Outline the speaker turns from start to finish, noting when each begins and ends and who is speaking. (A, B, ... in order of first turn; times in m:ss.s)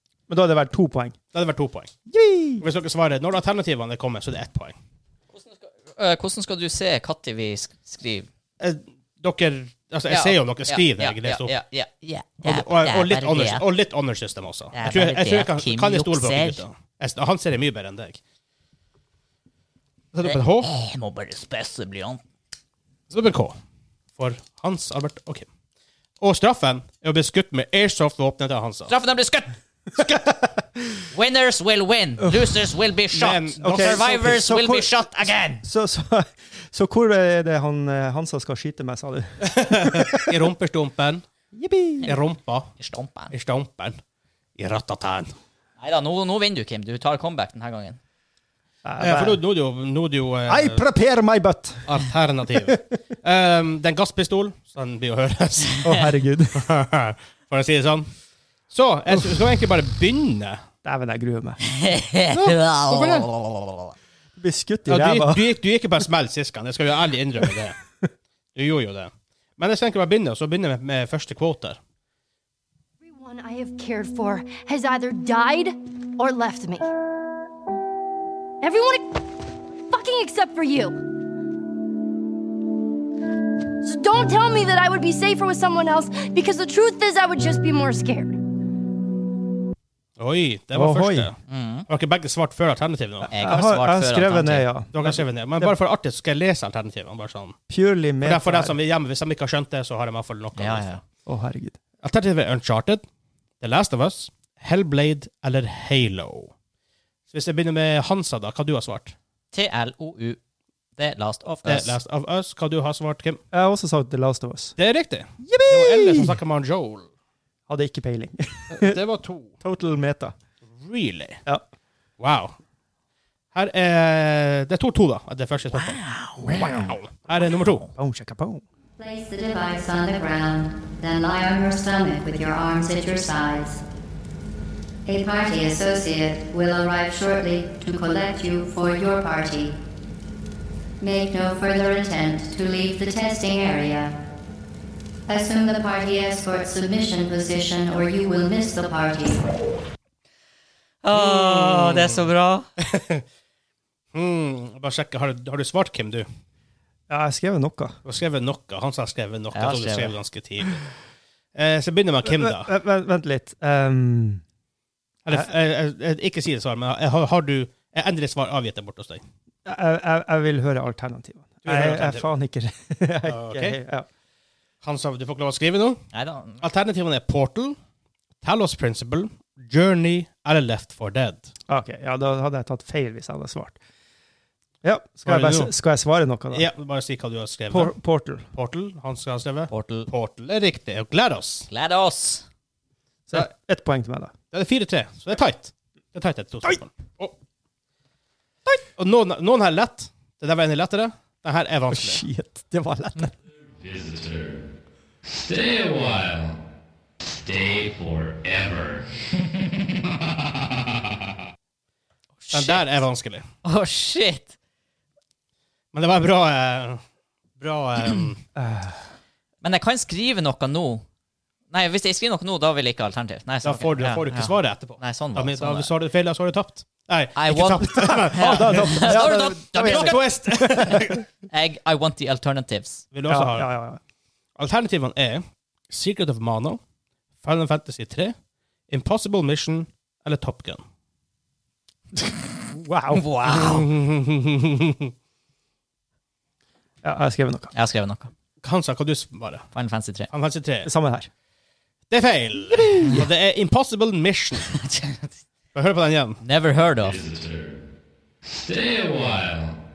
0:00.3-0:01.2 A
0:01.3-0:01.9 B
0:02.1-0:02.6 A
0:02.6-0:04.8 B
0:05.3-0:08.3 C
0:08.6-0:11.5 B
0:10.1-0:13.6 C
0:12.4-0:18.2 B
0:14.7-0:16.6 C
0:20.1-0:20.7 B
0:20.2-0:22.2 C
0:23.1-0:23.6 B
0:24.2-0:25.4 B
0:26.2-0:28.9 B
0:28.9-0:29.5 C
0:31.1-0:35.6 C
0:32.2-0:32.6 A
0:33.1-0:34.0 B
0:33.6-0:35.0 A
0:35.6-0:40.3 A
0:39.4-0:41.2 B
0:41.5-0:42.1 A
0:42.0-0:42.7 B
0:42.8-0:43.3 C
0:43.3-0:44.0 B
0:44.6-0:45.3 B
0:45.8-0:48.0 C
0:48.8-0:49.4 A
0:49.0-0:50.8 B
0:50.5-0:51.8 A
0:51.8-0:55.8 B
0:55.8-0:56.6 A
0:56.5-0:58.1 B
0:58.7-1:00.6 B
1:00.8-1:01.6 A
1:01.7-1:03.3 C
1:02.3-1:03.9 B
1:04.4-1:05.5 A
1:04.9-1:07.8 B
1:08.5-1:11.8 B
1:13.0-1:16.9 D
1:18.6-1:19.3 D
1:19.8-1:21.0 D
1:23.8-1:28.4 D
1:30.2-1:31.4 B
1:30.7-1:31.3 A
1:31.5-1:31.9 C
1:31.9-1:33.3 B
1:33.3-1:35.7 A
1:33.3-1:34.7 C
1:34.9-1:37.6 B
1:37.7-1:38.8 A
1:38.2-1:41.0 B
1:40.6-1:41.0 C
1:41.2-1:41.8 A
1:42.0-1:43.0 B
1:43.6-1:46.5 B
1:47.3-1:49.1 B
1:49.5-1:50.4 C
1:51.0-1:52.0 C
1:51.6-1:53.4 B
1:53.5-1:54.8 A
1:54.8-1:57.1 B
1:55.4-1:56.3 A
1:57.7-1:59.0 A
1:58.7-1:59.6 B
1:59.6-2:00.3 A
2:00.7-2:01.4 B
2:02.2-2:02.6 B
2:03.5-2:06.0 B
2:05.7-2:06.9 C
2:06.5-2:06.8 A
2:06.5-2:07.8 B
2:07.4-2:07.9 C
2:07.9-2:08.6 A
2:09.0-2:13.8 E
2:15.0-2:19.7 E
2:21.0-2:24.1 E
2:25.3-2:29.4 E
2:31.0-2:32.6 C
2:31.1-2:32.2 B
2:32.8-2:33.2 B
2:34.1-2:36.3 B
2:37.1-2:38.0 A
2:38.0-2:40.8 B
2:39.5-2:40.1 C
2:41.5-2:42.7 B
2:42.2-2:44.4 A
2:45.2-2:49.2 B
2:49.6-2:54.1 A
2:51.6-2:52.3 B
2:53.2-2:53.8 B
2:54.8-2:56.0 B
2:56.1-2:56.6 C
2:56.6-2:57.8 B
2:58.4-3:01.5 B
3:01.7-3:03.8 A
3:04.8-3:06.7 A
3:05.2-3:05.7 B
3:06.5-3:08.0 B
3:07.7-3:08.5 A
3:08.5-3:11.7 B
3:09.7-3:10.1 C
3:11.7-3:12.4 C
3:13.3-3:14.3 A
3:14.5-3:17.3 B
3:19.0-3:22.2 B
3:21.9-3:23.3 A
3:23.6-3:24.7 F
3:25.3-3:26.6 F
3:27.4-3:29.4 F
3:32.4-3:32.9 C
3:32.5-3:33.4 B
3:33.6-3:34.5 C
3:35.9-3:37.0 B
3:37.6-3:38.4 B
3:38.6-3:39.0 A
3:39.6-3:41.0 C
3:41.7-3:45.9 C
3:43.6-3:51.2 B
3:47.4-3:50.3 C
3:48.1-3:51.2 A
3:51.5-3:53.0 C
3:53.1-3:53.7 B
3:53.3-3:54.0 A
3:54.6-3:56.8 B
3:57.4-3:58.3 B
3:58.9-4:00.8 B
4:02.7-4:03.2 A
4:03.1-4:03.9 C
4:03.5-4:05.1 B
4:07.0-4:07.7 A
4:07.7-4:08.3 C
4:08.6-4:09.7 B
4:09.7-4:10.3 C
4:10.3-4:10.9 B
4:10.8-4:11.3 A
4:12.1-4:14.8 B
4:12.7-4:13.2 A
4:14.7-4:15.3 C
4:15.7-4:16.4 B
4:16.4-4:17.2 C
4:17.0-4:17.8 F
4:18.5-4:19.8 F